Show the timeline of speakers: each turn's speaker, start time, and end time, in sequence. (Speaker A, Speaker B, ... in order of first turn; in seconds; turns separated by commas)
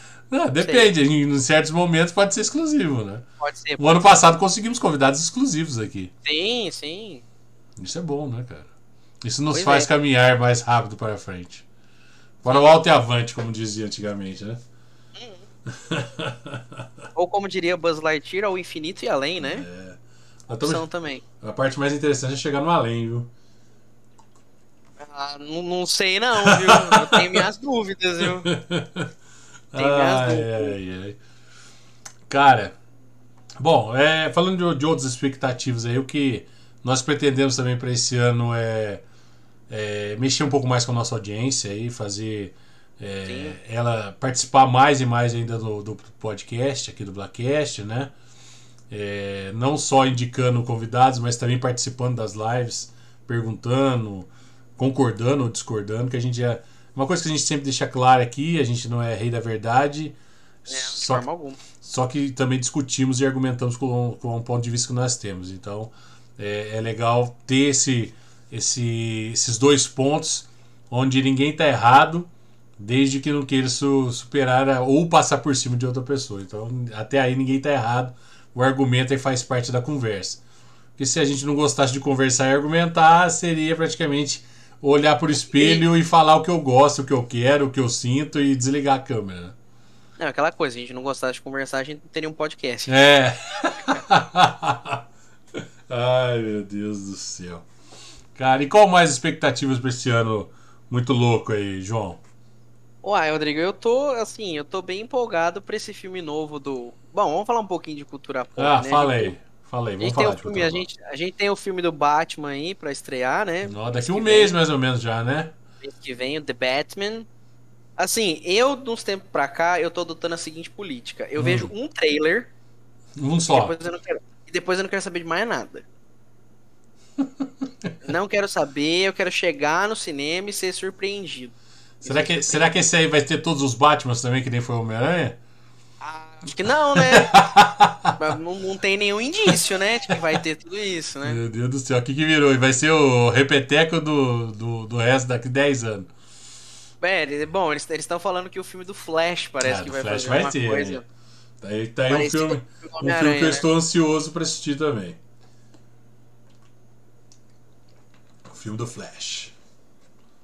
Speaker A: 0.3-3.2, Speaker B: 0.6-0.9, Speaker B: 3.4-4.1, Speaker A: 3.8-6.1, Speaker B: 6.2-7.2, Speaker A: 7.8-8.7, Speaker A: 9.2-11.7, Speaker B: 9.5-9.9, Speaker A: 12.4-14.6, Speaker B: 12.5-12.7, Speaker B: 15.2-15.5, Speaker A: 15.7-16.8, Speaker B: 17.1-19.7, Speaker A: 19.4-20.9, Speaker B: 20.5-21.2, Speaker A: 21.4-23.3, Speaker B: 25.0-28.5, Speaker A: 26.4-27.4, Speaker A: 28.2-29.1, Speaker A: 29.7-31.2, Speaker B: 29.8-30.8, Speaker A: 32.3-32.8, Speaker A: 33.6-39.0, Speaker A: 39.7-48.1, Speaker B: 43.2-43.6, Speaker A: 48.9-61.3, Speaker B: 60.7-61.6, Speaker A: 61.8-80.4, Speaker A: 81.0-89.5, Speaker B: 85.4-85.8, Speaker B: 90.2-94.0, Speaker A: 92.9-95.0, Speaker A: 95.6-97.7, Speaker A: 98.3-102.2, Speaker B: 103.0-109.3, Speaker A: 108.6-110.9, Speaker B: 110.0-114.5, Speaker A: 113.6-115.5, Speaker B: 115.8-117.3, Speaker B: 118.0-122.5, Speaker A: 121.4-121.7, Speaker A: 123.2-123.7, Speaker B: 123.5-125.9, Speaker A: 127.2-128.0, Speaker B: 128.0-132.7, Speaker A: 132.0-135.4, Speaker B: 136.0-137.5, Speaker A: 137.0-138.2, Speaker B: 138.2-141.4, Speaker A: 141.2-146.1, Speaker B: 147.0-151.1, Speaker A: 149.6-151.0, Speaker A: 151.6-155.2, Speaker B: 152.1-153.7, Speaker A: 158.5-159.5